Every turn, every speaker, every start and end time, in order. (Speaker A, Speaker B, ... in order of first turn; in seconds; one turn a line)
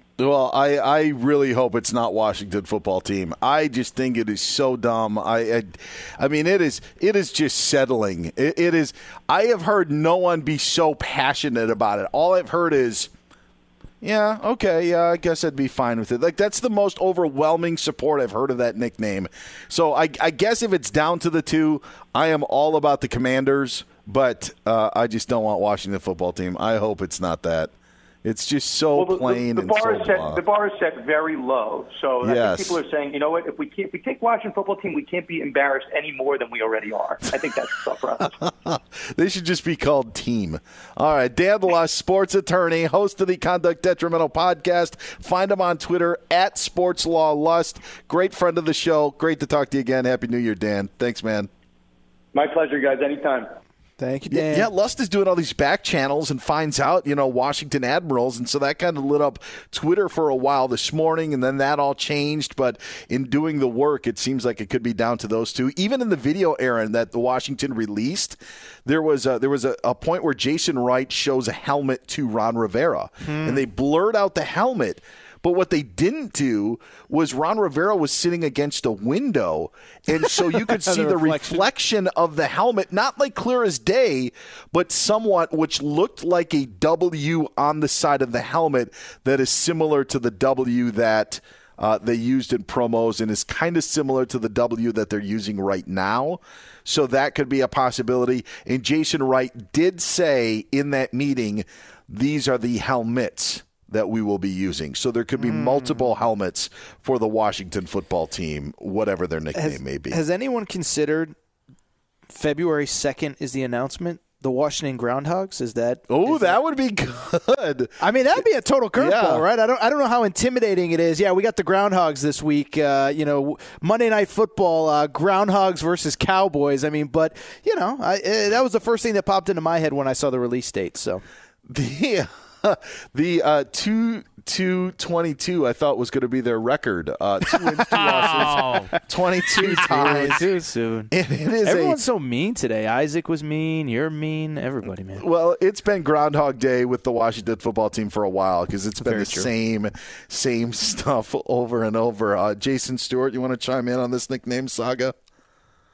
Speaker A: 0.2-13.1
Speaker A: 14.0-27.7
Speaker A: 28.2-30.4
Speaker B: 28.9-38.4
Speaker A: 32.2-32.8
Speaker A: 38.5-51.5
Speaker B: 52.3-53.5
Speaker C: 54.0-54.7
Speaker A: 54.3-110.2
Speaker C: 73.2-73.6
Speaker C: 80.5-81.6
Speaker C: 105.4-106.0
Speaker C: 109.5-111.3
Speaker C: 112.3-116.6
Speaker A: 116.1-118.4
Speaker C: 118.0-131.2
Speaker A: 119.0-119.4
Speaker A: 131.7-140.4
Speaker C: 137.9-138.8
Speaker C: 139.6-141.1
Speaker A: 141.1-142.0
Speaker C: 141.6-145.2
Speaker A: 145.2-155.1
Speaker C: 149.0-149.5